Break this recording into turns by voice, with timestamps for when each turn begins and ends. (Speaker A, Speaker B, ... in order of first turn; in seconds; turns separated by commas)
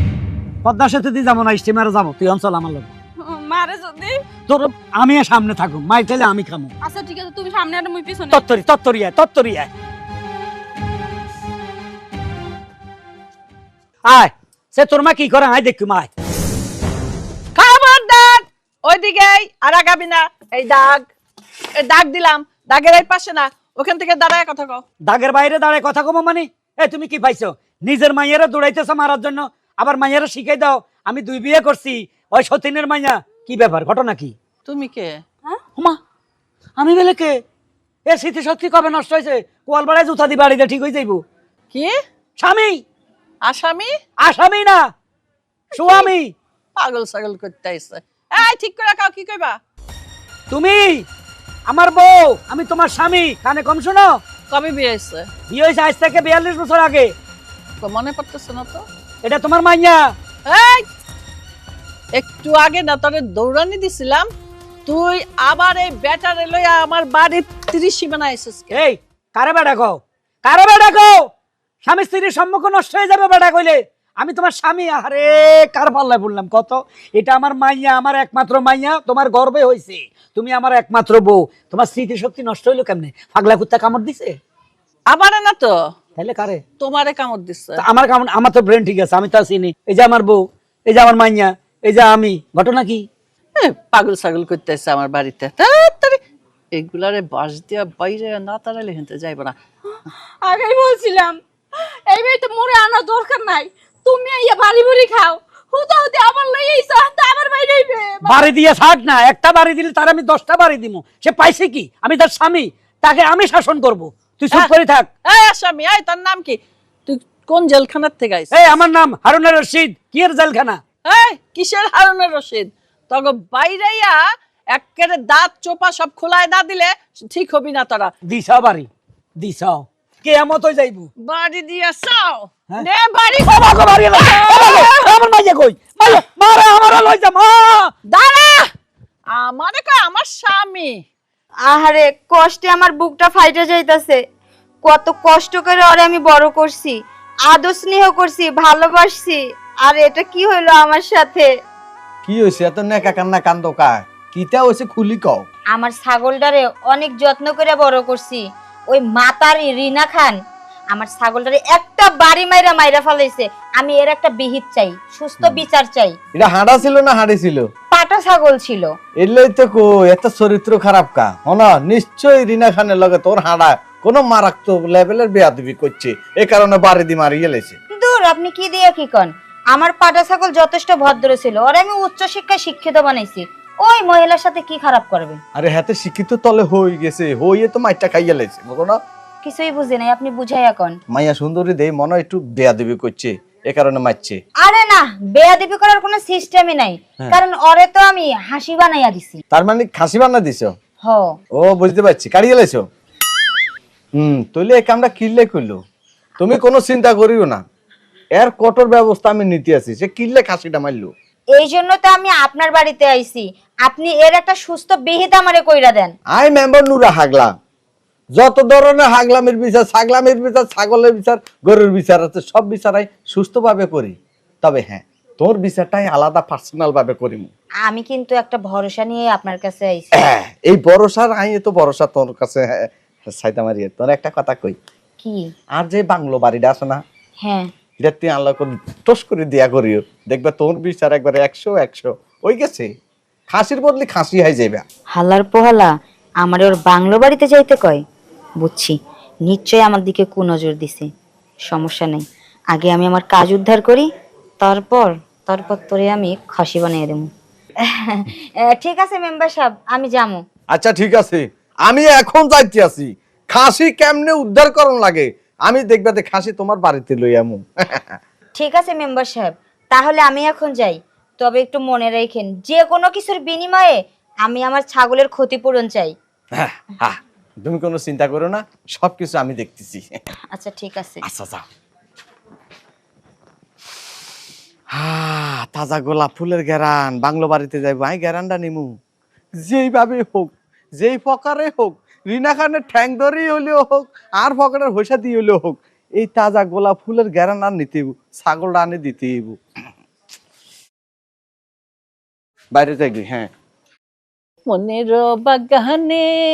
Speaker A: 0.6-2.9, Speaker B: 3.2-4.2, Speaker A: 4.5-6.7, Speaker B: 6.8-8.4, Speaker A: 8.3-9.7, Speaker A: 14.1-16.1, Speaker C: 17.6-21.0, Speaker C: 21.8-24.8, Speaker A: 25.1-34.3, Speaker C: 34.7-35.2, Speaker A: 36.8-37.4, Speaker A: 38.1-41.2, Speaker A: 42.4-42.8, Speaker C: 43.4-43.9, Speaker A: 44.2-44.8, Speaker A: 45.8-46.3, Speaker C: 45.8-46.1, Speaker C: 46.8-49.6, Speaker A: 50.5-51.1, Speaker A: 51.7-54.1, Speaker C: 54.5-55.2, Speaker A: 55.5-57.1, Speaker C: 57.8-58.8, Speaker A: 59.2-60.1, Speaker C: 60.5-60.8, Speaker C: 62.1-64.3, Speaker C: 64.8-68.7, Speaker A: 68.7-71.3, Speaker A: 71.8-84.4, Speaker C: 85.1-85.7, Speaker A: 86.2-86.6, Speaker C: 86.8-87.7, Speaker A: 87.8-93.0, Speaker C: 93.6-96.2, Speaker C: 96.7-99.5, Speaker B: 100.4-108.5, Speaker A: 108.2-115.1, Speaker C: 115.3-118.7, Speaker A: 118.5-120.8, Speaker C: 121.1-128.1, Speaker A: 128.2-131.1, Speaker C: 131.2-135.0, Speaker A: 132.7-137.9, Speaker C: 138.1-138.7, Speaker C: 139.3-141.0, Speaker D: 141.7-144.2, Speaker D: 144.8-151.5, Speaker E: 152.2-155.5, Speaker D: 155.7-160.4, Speaker D: 160.9-166.2, Speaker E: 166.3-167.7, Speaker D: 167.9-168.9, Speaker E: 169.2-177.8, Speaker D: 177.9-185.4, Speaker E: 185.5-189.0, Speaker D: 189.4-191.0, Speaker E: 191.1-194.4, Speaker D: 194.6-199.4, Speaker E: 199.5-200.7, Speaker E: 201.5-202.8, Speaker E: 204.2-205.8, Speaker E: 206.4-207.6, Speaker E: 208.4-211.1, Speaker D: 211.5-216.2, Speaker E: 216.3-217.5, Speaker E: 218.3-227.5, Speaker D: 227.8-230.2, Speaker E: 230.2-234.8, Speaker E: 235.8-237.0, Speaker D: 237.4-237.7, Speaker E: 238.0-242.9, Speaker E: 243.5-244.8, Speaker D: 245.2-245.9, Speaker D: 246.4-248.0, Speaker D: 248.6-248.9, Speaker D: 249.5-251.1, Speaker D: 251.7-254.1, Speaker D: 254.6-257.3, Speaker D: 258.0-260.4, Speaker E: 260.7-268.1, Speaker D: 268.6-276.1, Speaker E: 276.5-280.1, Speaker D: 280.5-281.2, Speaker E: 281.2-281.6, Speaker E: 284.9-288.9, Speaker E: 289.6-299.6, Speaker E: 302.7-303.5, Speaker C: 304.7-306.2